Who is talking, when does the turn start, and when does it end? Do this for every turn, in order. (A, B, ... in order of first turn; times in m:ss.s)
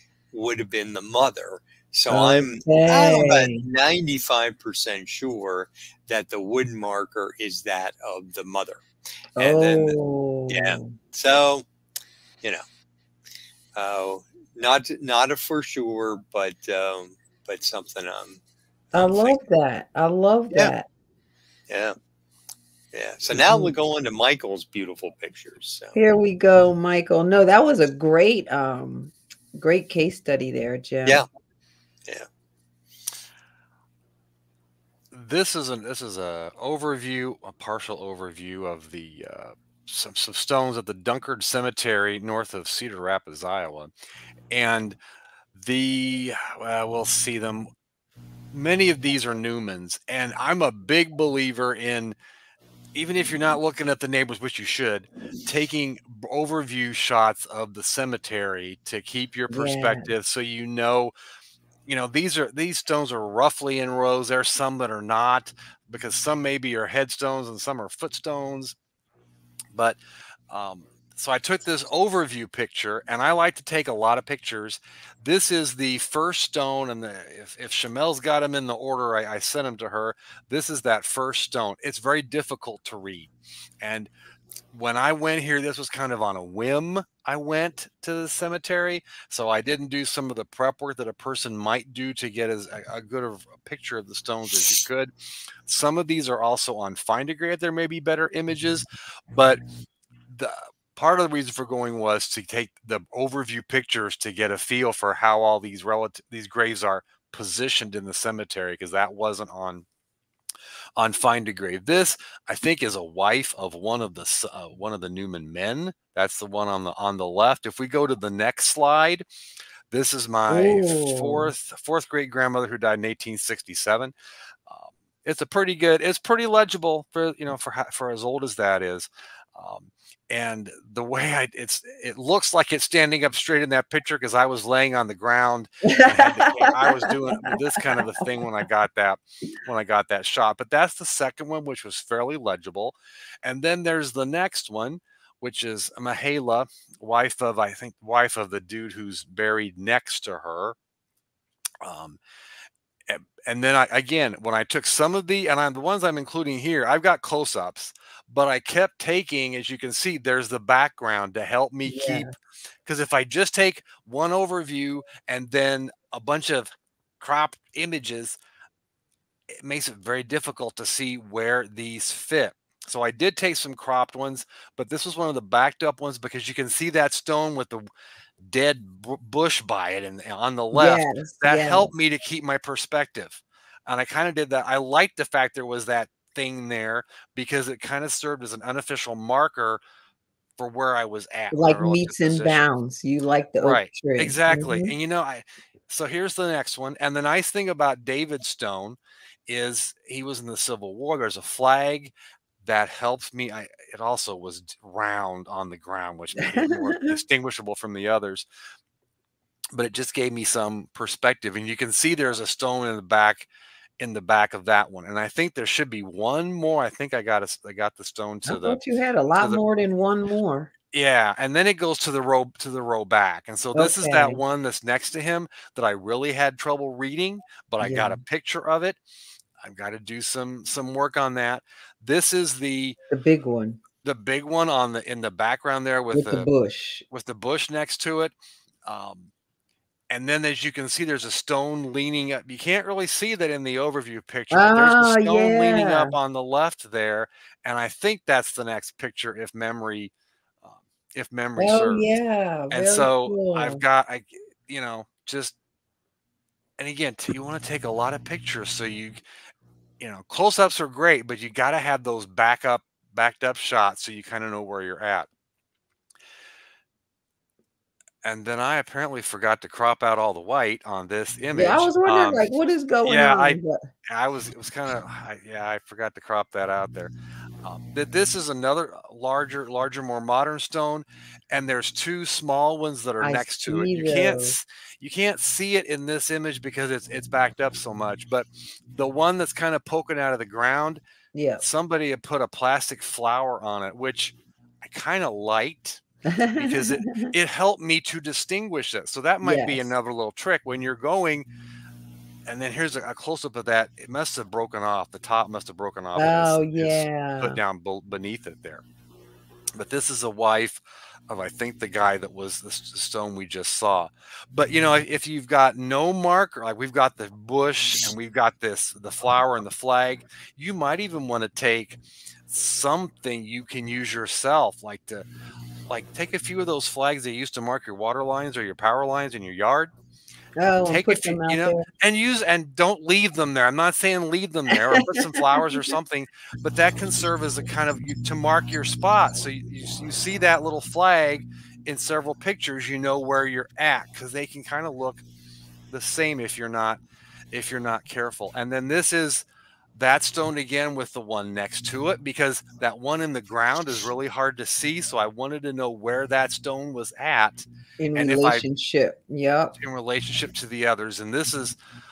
0:00.3-0:08.8 A
0:02.1-0:03.6 B
0:09.4-0:10.9 B
0:09.4-0:10.0 A
0:10.5-0:11.6 A
0:13.8-0:18.4 A
0:18.9-0:20.9 B
0:19.0-0:19.4 A
0:21.7-0:22.0 A
0:22.9-0:26.0 A
0:23.3-0:23.7 B
0:25.9-0:31.2 B
0:35.1-0:43.9 C
0:44.5-0:45.0 C
0:45.5-0:47.7 C
0:48.5-0:52.2 C
0:52.9-1:01.1 C
0:59.5-1:00.1 B
1:01.9-1:08.7 C
1:09.7-1:10.0 C
1:10.5-1:23.3 C
1:23.8-1:24.1 C
1:24.7-1:35.1 C
1:35.7-1:39.6 C
1:40.3-1:49.8 C
1:51.0-1:59.2 C
1:59.9-2:04.1 C
2:00.5-2:01.5 B
2:04.7-2:30.8 C
2:15.8-2:18.0 B
2:31.8-2:32.2 C
2:33.1-2:42.3 C
2:41.8-2:42.3 B
2:42.8-2:48.4 C
2:49.6-2:57.8 C
2:58.4-3:09.8 C
3:00.7-3:01.9 B
3:10.6-3:12.6 C
3:11.5-3:14.9 B
3:13.6-3:28.5 C
3:26.5-3:27.1 B
3:29.7-3:33.5 C
3:34.0-3:38.8 C
3:38.4-3:40.7 B
3:40.9-3:49.0 C
3:43.7-3:44.4 B
3:47.8-3:48.2 B
3:49.6-3:53.0 C
3:53.1-3:53.8 B
3:54.0-3:56.5 C
3:56.1-3:57.0 B
3:57.1-3:58.3 C
3:58.8-3:59.3 C
4:00.1-4:10.1 C
4:04.5-4:06.1 B
4:10.6-4:12.1 C
4:11.6-4:13.8 B
4:12.7-4:15.5 C
4:16.8-4:19.2 C
4:20.0-4:25.3 C
4:28.2-4:32.5 C
4:31.5-4:33.9 B
4:33.0-4:37.1 C
4:37.6-4:51.0 C
4:43.2-4:44.6 B
4:51.3-4:51.6 B
4:51.6-4:56.0 C
4:56.3-4:57.3 B
4:56.5-5:01.4 C
4:59.4-4:59.8 B
5:02.5-5:08.8 C
5:06.2-5:07.6 B
5:09.7-5:25.2 C
5:25.9-5:29.9 C
5:30.6-5:31.9 B
5:30.8-5:45.2 C
5:35.0-5:35.4 B
5:45.9-5:47.0 C
5:47.5-5:58.6 C
5:58.0-5:59.7 B
5:59.8-6:01.8 C